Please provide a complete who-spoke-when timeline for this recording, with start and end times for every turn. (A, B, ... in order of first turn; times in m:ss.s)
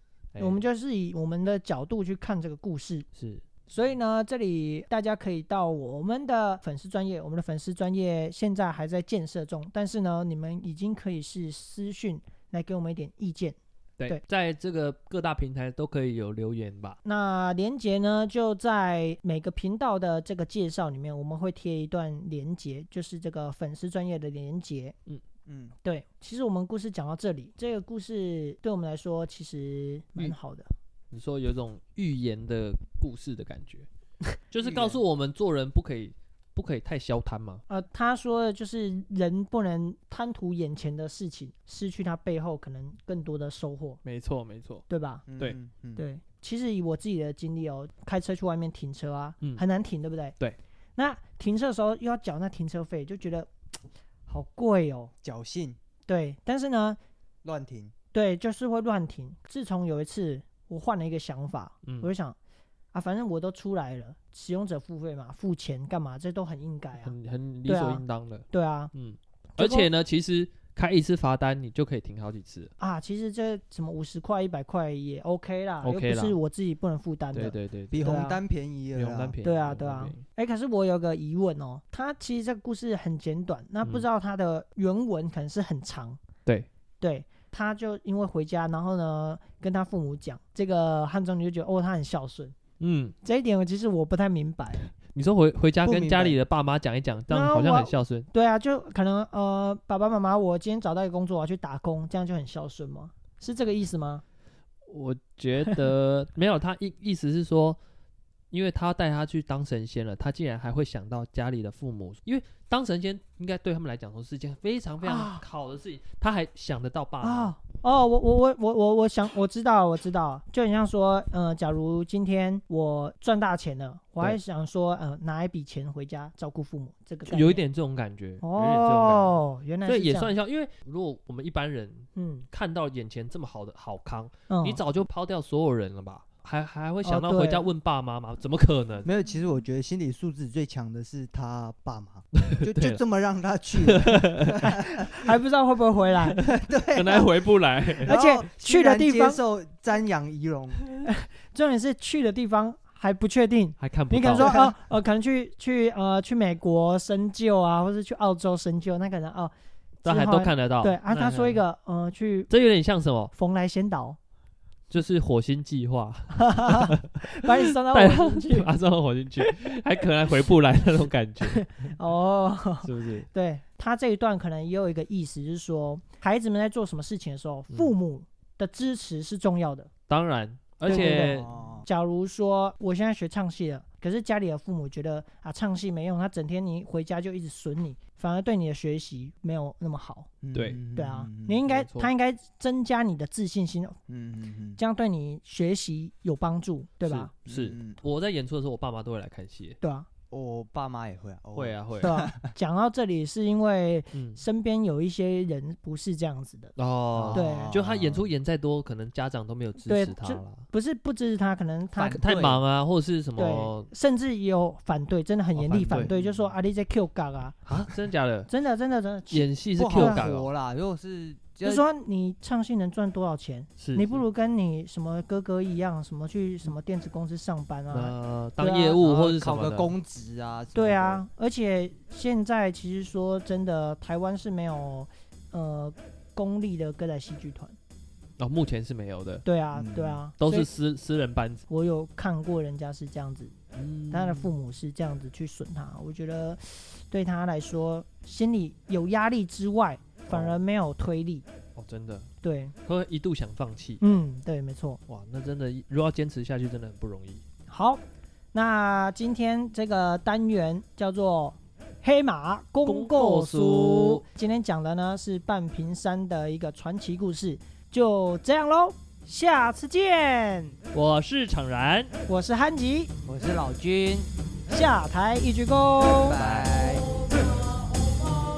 0:00.3-0:00.6 A
0:00.4-0:03.1 B
0:03.2-0:03.4 A
0:03.7-0:14.2 B
0:14.0-0:17.0 A
0:17.0-0:24.9 B
0:25.5-0:25.7 C
0:25.8-0:30.7 B
0:31.1-0:33.9 A
0:34.5-0:37.6 A
0:34.6-0:35.0 C
0:37.7-0:44.0 B
0:44.0-0:44.8 A
0:44.9-0:45.2 B
0:45.3-0:46.0 C
0:46.0-0:50.4 B
0:51.0-0:53.5 B
0:54.3-0:55.1 B
0:55.2-0:55.8 C
0:56.1-0:57.0 B
0:57.4-0:57.9 C
0:58.1-1:02.4 B
1:01.8-1:02.1 A
1:02.9-1:07.1 B
1:07.0-1:12.7 A
1:07.6-1:08.9 B
1:09.6-1:09.9 B
1:12.8-1:18.4 B
1:15.8-1:16.4 A
1:17.3-1:18.2 A
1:17.9-1:19.4 C
1:18.9-1:20.2 A
1:19.4-1:26.2 B
1:27.0-1:32.5 B
1:32.8-1:33.1 A
1:33.2-1:34.9 B
1:34.9-1:38.3 A
1:35.8-1:36.4 C
1:37.3-1:44.2 B
1:44.9-1:47.8 A
1:48.5-1:57.5 A
1:55.0-1:55.4 B
1:57.2-2:07.6 B
2:07.3-2:19.1 A
2:08.4-2:10.3 B
2:12.1-2:12.5 B
2:14.5-2:14.8 B
2:17.0-2:17.6 B
2:19.0-2:25.1 C
2:22.4-2:23.0 A
2:23.8-2:24.8 A
2:25.1-2:26.4 B
2:26.4-2:27.3 C
2:26.7-2:28.2 A
2:27.9-2:30.8 C
2:28.0-2:29.4 B
2:31.0-2:42.5 B
2:33.8-2:34.5 A
2:34.3-2:34.7 C
2:40.0-2:41.6 A
2:42.5-2:43.3 A
2:43.3-2:44.2 B
2:44.9-2:51.9 A
2:46.4-2:48.7 B
2:51.4-2:59.9 B
2:52.8-2:53.3 A
3:00.1-3:01.5 A
3:00.8-3:01.9 C
3:00.9-3:10.3 B
3:10.4-3:11.6 C
3:10.5-3:10.8 A
3:10.9-3:14.0 B
3:11.6-3:12.1 A
3:14.1-3:14.8 C
3:14.8-3:17.3 B
3:17.0-3:19.8 A
3:17.4-3:18.0 C
3:19.8-3:20.1 B
3:20.3-3:22.4 C
3:21.5-3:22.1 A
3:22.0-3:26.7 B
3:24.1-3:24.4 A
3:26.8-3:30.6 A
3:27.1-3:28.2 C
3:27.3-3:27.8 B
3:29.8-3:32.4 B
3:32.0-3:32.6 C
3:32.2-3:33.9 A
3:33.4-3:37.6 B
3:35.6-3:36.1 A
3:35.9-3:36.4 C
3:37.6-3:38.5 A
3:38.5-3:40.3 B
3:39.3-3:40.5 A
3:39.8-3:41.8 C
3:41.6-3:49.0 B
3:43.8-3:44.2 A
3:47.9-3:49.9 A
3:49.0-3:51.2 C
3:50.7-3:57.8 B
3:58.4-3:59.4 A
3:59.4-4:00.7 B
3:59.7-4:00.2 C
4:00.4-4:01.6 A
4:01.7-4:03.5 B
4:03.7-4:04.5 A
4:04.1-4:11.5 B
4:10.3-4:10.6 A
4:11.8-4:12.3 A
4:12.4-4:12.7 B
4:12.8-4:14.0 A
4:14.0-4:15.0 B
4:15.1-4:17.4 A
4:17.7-4:18.0 B
4:18.5-4:30.8 B
4:22.8-4:24.2 A
4:30.9-4:32.1 A
4:32.3-4:33.1 B
4:33.2-4:34.3 C
4:34.7-4:36.4 B
4:36.2-4:37.1 C
4:36.4-4:36.8 A